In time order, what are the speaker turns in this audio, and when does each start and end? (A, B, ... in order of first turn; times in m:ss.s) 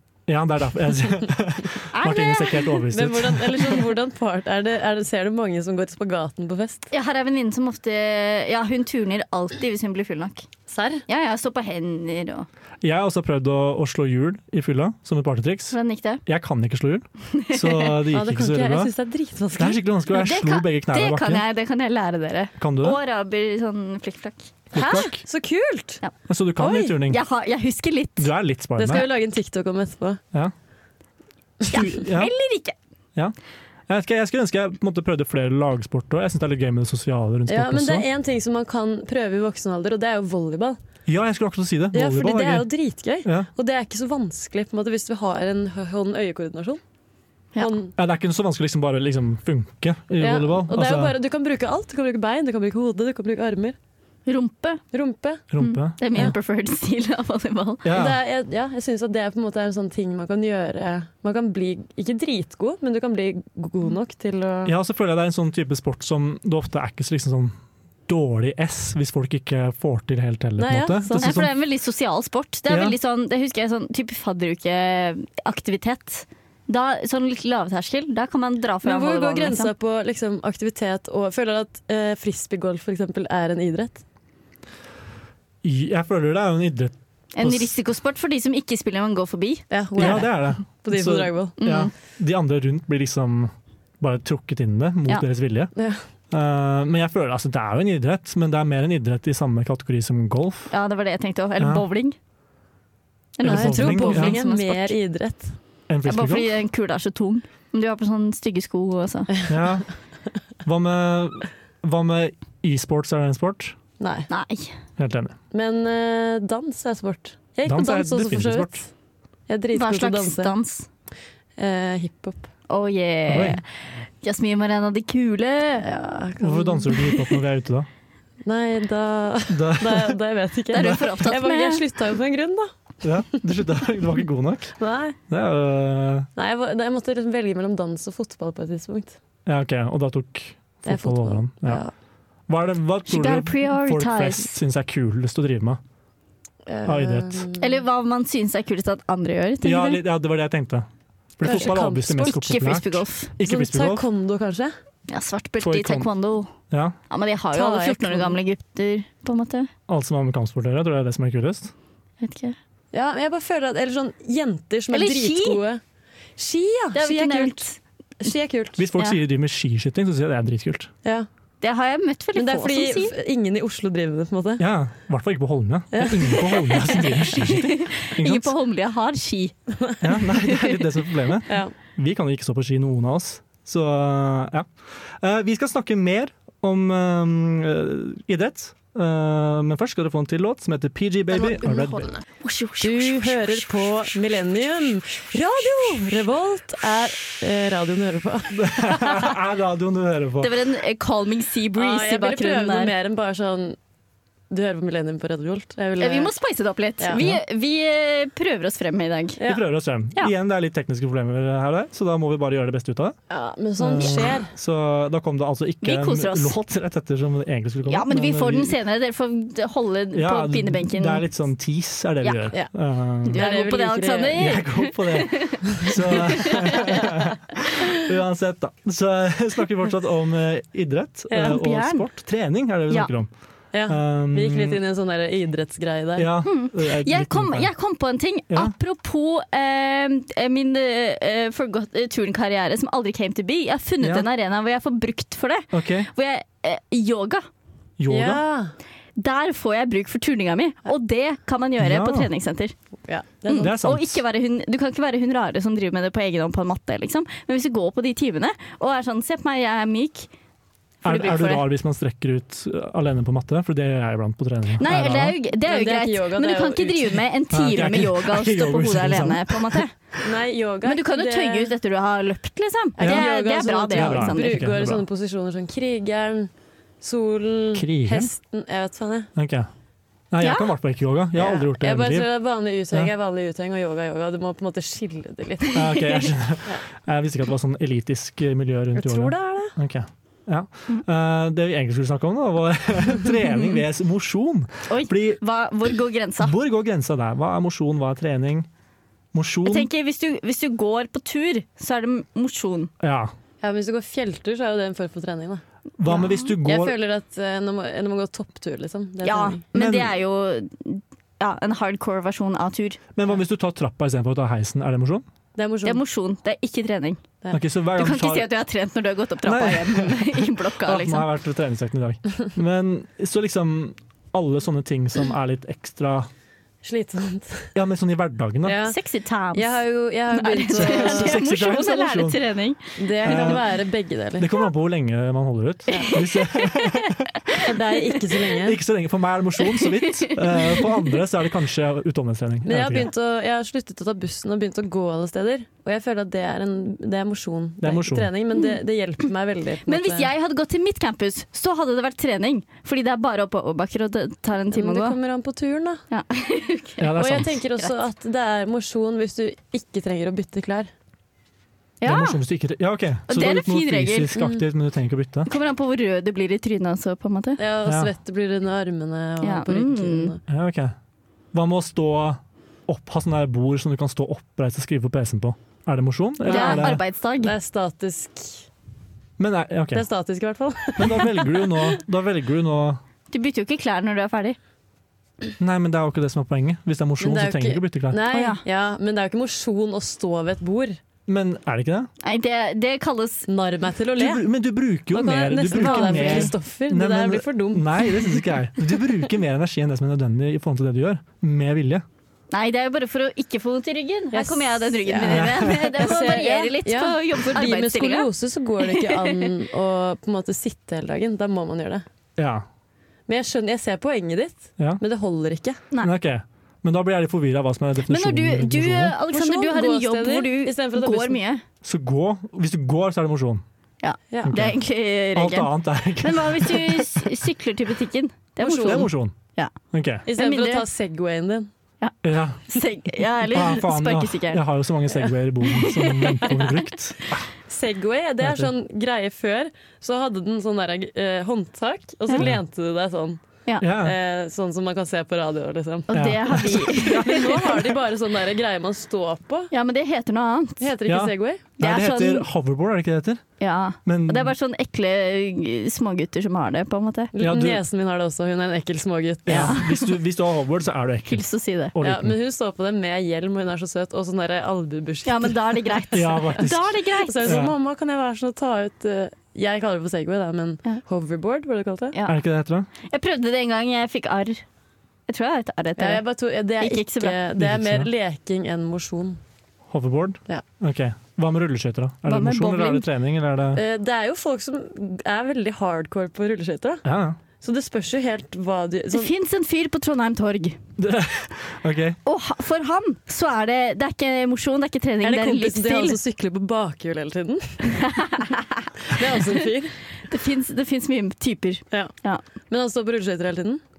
0:00.3-0:03.8 A
0:01.9-0:02.8 B
0:02.9-0:06.9 C
0:06.9-0:10.4 B
0:10.7-0:11.0 C
0:11.1-0:12.5 B
0:12.8-0:15.7 A
0:15.7-0:16.2 B
0:16.2-0:18.9 A
0:17.3-0:18.0 B
0:18.1-0:19.8 C
0:19.6-0:21.4 A
0:20.1-0:24.5 B
0:22.6-0:23.0 A
0:24.7-0:25.2 A
0:24.7-0:26.0 C
0:26.3-0:27.2 A
0:26.6-0:27.0 C
0:27.1-0:28.3 B
0:28.2-0:29.1 A
0:28.8-0:30.2 C
0:31.7-0:32.7 B
0:31.7-0:32.3 A
0:33.9-0:38.0 A
0:37.5-0:40.8 C
0:41.0-0:42.7 A
0:41.9-0:46.8 C
0:43.2-0:43.5 A
0:47.6-0:47.9 C
0:48.0-0:51.2 A
0:50.2-0:53.8 C
0:54.2-0:54.8 B
0:54.9-0:55.4 C
0:55.5-0:56.3 A
0:55.6-0:57.9 B
0:57.8-0:58.2 A
0:57.9-1:04.7 C
1:04.6-1:07.5 A
1:08.1-1:11.5 A
1:10.6-1:11.4 C
1:11.1-1:19.7 B
1:12.7-1:13.0 A
1:18.8-1:24.0 C
1:25.6-1:27.8 A
1:27.3-1:30.2 B
1:29.7-1:31.6 C
1:30.0-1:35.7 A
1:31.6-1:31.9 B
1:35.7-1:36.0 C
1:36.3-1:40.7 A
1:40.7-1:42.2 B
1:41.6-1:41.8 A
1:43.4-1:45.0 B
1:43.4-1:44.4 A
1:43.4-1:45.6 C
1:45.9-1:46.5 A
1:46.0-1:49.3 B
1:49.5-1:49.9 A
1:50.6-1:53.8 A
1:54.0-1:54.3 C
1:54.3-1:54.7 B
1:55.0-1:55.3 A
1:55.5-1:58.9 C
1:57.6-1:58.8 A
1:59.5-2:00.5 C
1:59.7-2:00.9 B
2:01.6-2:02.5 C
2:02.7-2:03.6 B
2:03.3-2:03.6 A
2:04.2-2:05.9 B
2:05.8-2:07.0 C
2:06.4-2:07.9 A
2:08.4-2:12.7 C
2:09.5-2:10.2 A
2:10.7-2:11.8 B
2:10.8-2:11.0 A
2:13.0-2:14.8 A
2:13.3-2:13.6 C
2:14.8-2:15.2 C
2:15.3-2:16.3 A
2:16.4-2:19.2 C
2:19.4-2:21.8 A
2:20.8-2:21.9 C
2:22.5-2:25.8 A
2:23.1-2:24.6 B
2:26.6-2:27.8 C
2:26.8-2:27.4 A
2:27.6-2:30.0 B
2:29.6-2:34.0 A
2:31.4-2:32.5 C
2:32.3-2:33.3 B
2:33.4-2:34.7 C
2:35.1-2:36.5 B
2:35.6-2:36.1 A
2:36.7-2:37.0 A
2:37.1-2:39.7 B
2:37.5-2:38.4 C
2:39.9-2:41.7 A
2:42.2-2:42.6 B
2:42.9-2:45.8 C
2:44.9-2:45.6 B
2:46.4-2:47.7 C
2:46.9-2:47.8 B
2:48.2-2:48.8 C
2:48.8-2:50.9 A
2:51.6-2:53.1 B
2:52.3-2:54.6 C
2:54.6-2:58.5 A
2:55.9-2:56.9 C
2:57.0-2:59.5 B
3:00.0-3:12.1 A
3:01.5-3:01.7 C
3:11.3-3:13.9 B
3:12.8-3:19.2 C
3:18.5-3:20.5 A
3:20.4-3:22.9 B
3:21.8-3:23.8 C
3:24.5-3:26.3 C
3:26.0-3:29.4 B
3:29.4-3:33.2 A
3:33.3-3:34.5 C
3:33.8-3:38.7 A
3:35.8-3:36.5 B
3:37.9-3:41.2 B
3:40.1-3:43.5 A
3:42.2-3:42.5 B
3:43.2-3:46.9 B
3:43.3-3:44.5 C
3:44.3-3:53.3 A
3:46.5-3:47.1 C
3:51.3-3:51.6 C
3:51.4-3:52.1 B
3:53.7-3:56.3 C
3:53.8-3:54.8 A
3:56.2-3:57.7 A
3:56.4-4:07.4 B
3:58.5-3:58.7 A
4:04.0-4:04.3 A
4:05.7-4:06.1 A
4:08.0-4:08.4 A
4:08.1-4:08.7 C
4:09.2-4:12.7 B
4:11.8-4:12.3 A
4:13.0-4:13.7 C
4:13.5-4:20.3 B
4:13.6-4:14.2 A
4:21.0-4:25.3 A
4:21.0-4:21.7 B
4:24.8-4:29.9 B
4:25.5-4:27.2 C
4:27.5-4:29.8 A
4:30.2-4:31.7 C
4:30.8-4:34.6 B
4:33.0-4:33.3 A
4:33.0-4:36.5 C
4:33.9-4:35.0 A
4:37.0-4:39.3 C
4:37.7-4:38.3 A
4:39.4-4:39.7 A
4:40.3-4:42.3 A
4:40.4-4:40.7 B
4:41.3-4:46.1 C
4:45.7-4:55.4 A
4:48.9-4:49.7 C
4:54.9-4:56.5 B
4:56.4-4:58.7 A
4:59.3-4:59.9 A
4:59.6-5:02.9 B
5:03.0-5:03.3 A
5:03.6-5:09.6 C
5:06.0-5:07.0 A
5:06.1-5:06.5 B
5:09.2-5:13.0 B
5:09.7-5:10.1 A
5:13.2-5:15.2 A
5:15.6-5:16.0 C
5:15.8-5:17.2 B
5:17.5-5:18.5 A
5:18.0-5:21.3 B
5:19.4-5:26.3 A
5:26.8-5:27.7 C
5:27.7-5:28.8 A
5:28.6-5:29.0 C
5:28.8-5:29.8 B
5:29.5-5:31.4 C
5:30.3-5:33.5 B
5:30.7-5:32.4 A
5:33.0-5:34.5 C
5:33.2-5:33.7 A
5:34.4-5:37.5 A
5:36.7-5:37.0 B
5:37.6-5:38.8 C
5:38.5-5:43.1 A
5:39.7-5:40.8 B
5:42.6-5:50.3 C
5:47.8-5:48.3 A
5:49.8-5:55.2 B
5:54.7-5:56.0 C
5:56.1-5:57.9 B
5:57.0-5:57.6 A
5:57.2-6:00.9 C
6:02.0-6:02.4 B
6:02.0-6:05.5 A
6:03.3-6:04.4 B
6:04.3-6:04.6 C
6:05.4-6:07.6 B
6:07.6-6:10.4 C
6:07.8-6:08.1 A
6:09.4-6:10.3 B
6:10.5-6:11.0 A
6:11.5-6:17.0 A
6:16.4-6:17.5 B
6:16.4-6:18.6 C
6:19.4-6:20.0 A
6:19.9-6:22.0 C
6:21.0-6:23.0 A
6:23.3-6:24.6 B
6:25.6-6:28.2 A
6:27.2-6:31.0 C
6:28.3-6:28.6 B
6:31.3-6:32.1 A
6:32.2-6:33.5 B
6:33.5-6:34.4 C
6:34.2-6:42.0 A
6:35.1-6:38.1 C
6:35.5-6:36.5 B
6:42.5-6:48.3 B
6:44.3-6:52.0 C
6:45.2-6:45.9 A
6:48.8-6:49.5 B
6:52.4-6:52.6 A
6:53.3-6:55.8 C
6:56.0-6:59.2 A
6:58.1-7:01.6 B
6:59.3-7:01.4 C
7:01.8-7:03.6 A
7:04.0-7:09.7 B
7:04.4-7:04.8 A
7:05.3-7:07.2 A
7:08.6-7:09.1 C
7:08.8-7:09.3 A
7:09.9-7:10.2 A
7:10.3-7:11.7 C
7:10.3-7:10.9 B
7:12.2-7:12.6 A
7:12.7-7:14.6 B
7:13.5-7:17.5 A
7:15.7-7:16.5 B
7:17.7-7:23.4 C
7:18.4-7:18.7 A
7:23.8-7:24.2 A
7:24.0-7:26.2 C
7:26.1-7:27.7 B
7:26.1-7:27.9 A
7:27.0-7:29.7 C
7:29.7-7:30.9 B
7:30.8-7:31.8 C
7:31.1-7:33.4 A
7:31.8-7:32.4 B
7:33.6-7:37.3 B
7:34.0-7:34.5 A
7:37.3-7:39.8 C
7:37.4-7:37.8 A
7:39.5-7:41.4 A
7:39.5-7:40.1 B
7:41.3-7:41.9 B
7:41.9-7:42.4 A
7:42.0-7:46.0 C
7:45.2-7:47.5 B
7:46.1-7:46.9 A
7:47.2-7:52.2 C
7:47.4-7:47.7 A
7:52.2-7:52.9 A
7:53.0-7:54.6 B
7:55.3-7:56.2 B
7:56.0-7:59.4 C
7:56.8-7:57.4 B
7:57.6-7:58.1 A
7:59.9-8:03.8 A
8:02.2-8:03.1 B
8:03.7-8:07.0 C
8:07.0-8:07.4 A
8:07.6-8:09.3 C
8:09.1-8:10.8 B
8:11.0-8:12.2 A
8:12.2-8:16.2 B
8:15.2-8:18.0 C
8:17.9-8:18.9 B
8:19.1-8:19.9 C
8:20.2-8:22.4 B
8:22.7-8:23.8 C